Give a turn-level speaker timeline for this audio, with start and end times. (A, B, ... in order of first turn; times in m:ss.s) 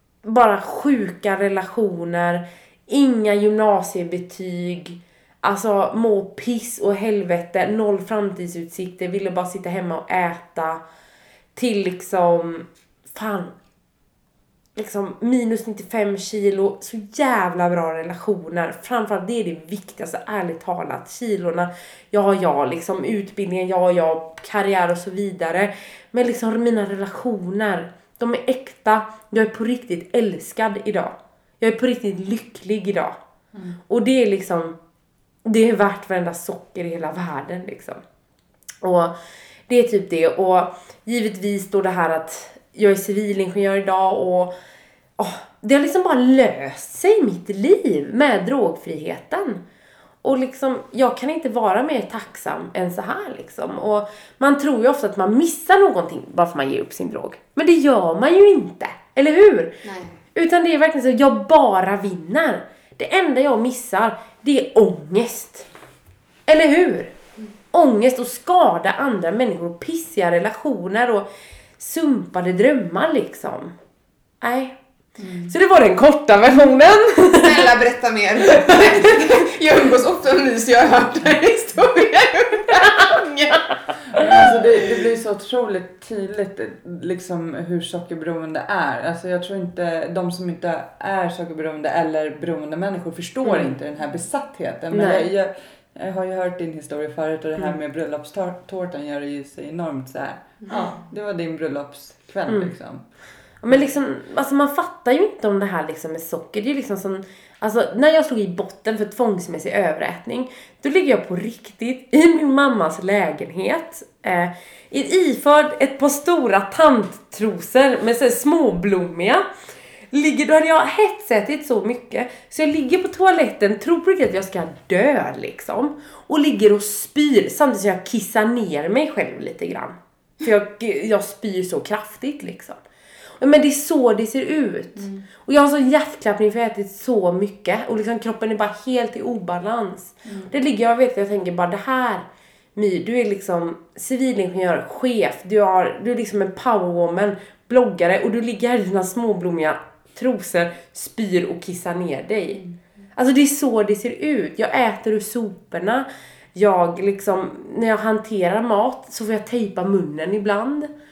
0:00.2-0:10.8 A
0:11.5-0:13.5 A
0:14.7-0:33.2 A
0:33.9-0:34.8 A
0:35.4-0:38.0 A
0:38.8-0:39.1 A
0:39.7-0:44.5 A
0:45.2-0:49.6 A
0:50.2-0:59.8 A
0:59.8-1:00.2 B
1:00.3-1:05.7 A
1:06.5-1:07.1 A
1:07.7-1:11.3 A
1:11.8-1:13.7 A
1:14.4-1:14.8 A
1:15.2-1:15.5 C
1:15.4-1:17.7 A
1:17.4-1:23.6 B
1:18.6-1:19.0 A
1:24.1-1:43.0 C
1:33.4-1:33.7 A
1:34.9-1:35.3 A
1:42.5-1:42.7 A
1:43.6-1:59.4 A
2:00.1-2:12.8 A
2:13.4-2:32.6 A
2:15.0-2:15.2 C
2:20.2-2:20.5 C
2:33.2-2:40.9 A